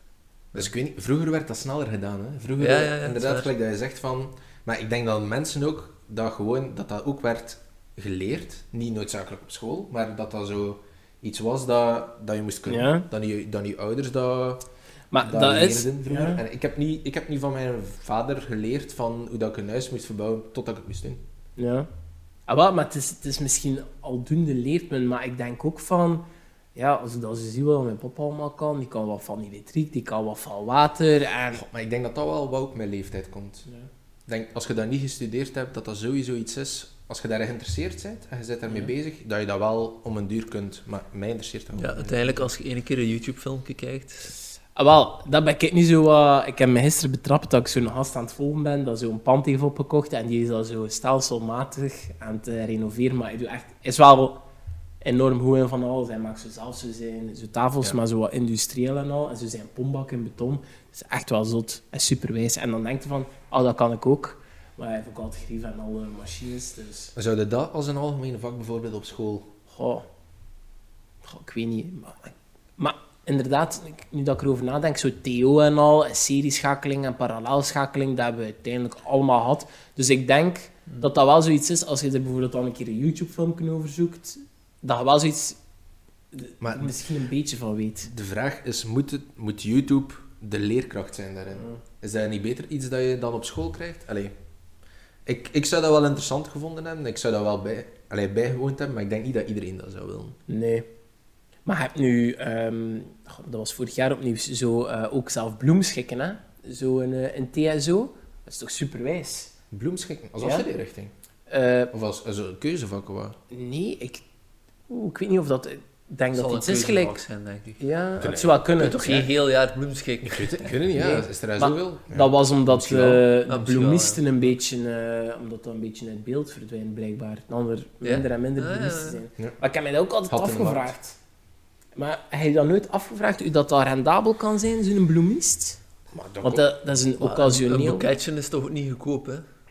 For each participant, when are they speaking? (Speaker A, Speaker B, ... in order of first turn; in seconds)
Speaker A: 0.5-14.6, 15.2-21.2, 31.5-33.7, 34.3-42.4, 67.2-69.5, 86.6-86.9, 88.1-94.3, 95.3-100.4, 109.7-111.1, 111.9-113.4, 118.2-118.6, 120.3-123.2, 130.3-130.9, 136.1-136.7
Speaker B: 2.6-3.5, 41.8-44.4, 116.3-117.8, 118.8-120.8, 123.5-124.3, 128.0-129.2, 137.2-139.4
Speaker C: 12.7-13.1, 15.1-16.4, 21.6-21.9, 22.5-31.6, 44.8-54.4, 55.0-67.1, 69.7-70.1, 71.2-85.6, 86.3-88.1, 100.5-100.9, 101.7-109.5, 110.4-110.7, 111.5-111.9, 113.5-114.2, 114.9-117.2, 117.8-119.3, 121.0-131.2, 132.0-135.8, 136.4-138.1